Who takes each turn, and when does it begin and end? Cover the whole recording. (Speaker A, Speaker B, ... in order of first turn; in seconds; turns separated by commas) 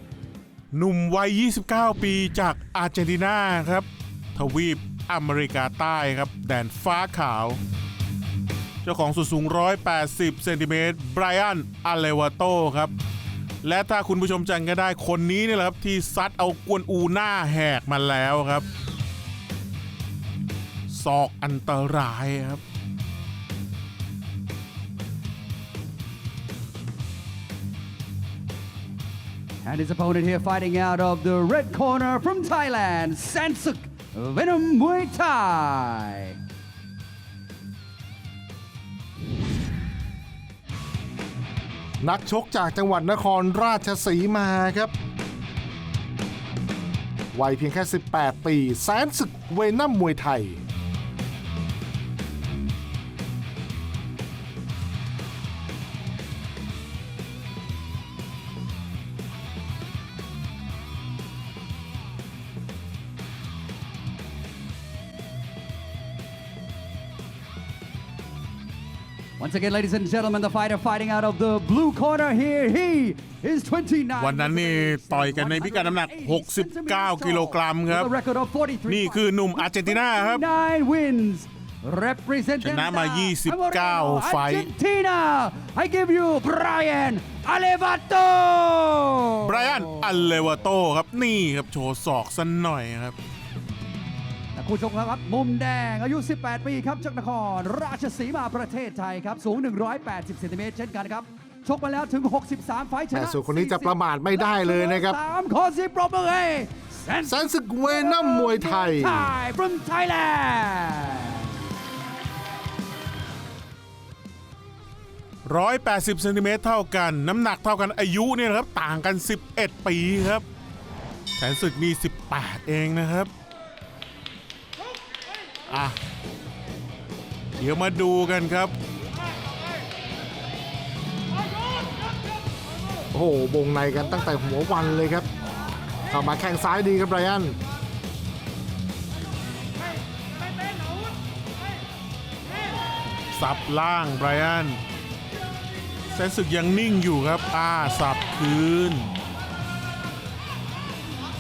Speaker A: 0.7-7.6, Speaker A: 8.8-12.9, Speaker A: 13.6-18.7, Speaker A: 20.9-22.6, Speaker B: 29.6-36.4, Speaker C: 42.0-44.9, Speaker C: 47.3-50.6, Speaker B: 69.4-90.3, Speaker A: 74.2-78.1, Speaker A: 78.9-80.4, Speaker A: 82.6-84.7, Speaker A: 89.4-93.2, Speaker B: 94.5-111.5, Speaker C: 103.1-105.2, Speaker C: 107.2-109.3, Speaker A: 115.5-120.4, Speaker A: 121.4-123.3, Speaker A: 125.7-126.0, Speaker A: 127.6-128.7, Speaker C: 133.1-135.3, Speaker C: 136.1-137.6, Speaker A: 143.3-144.8, Speaker A: 146.1-149.1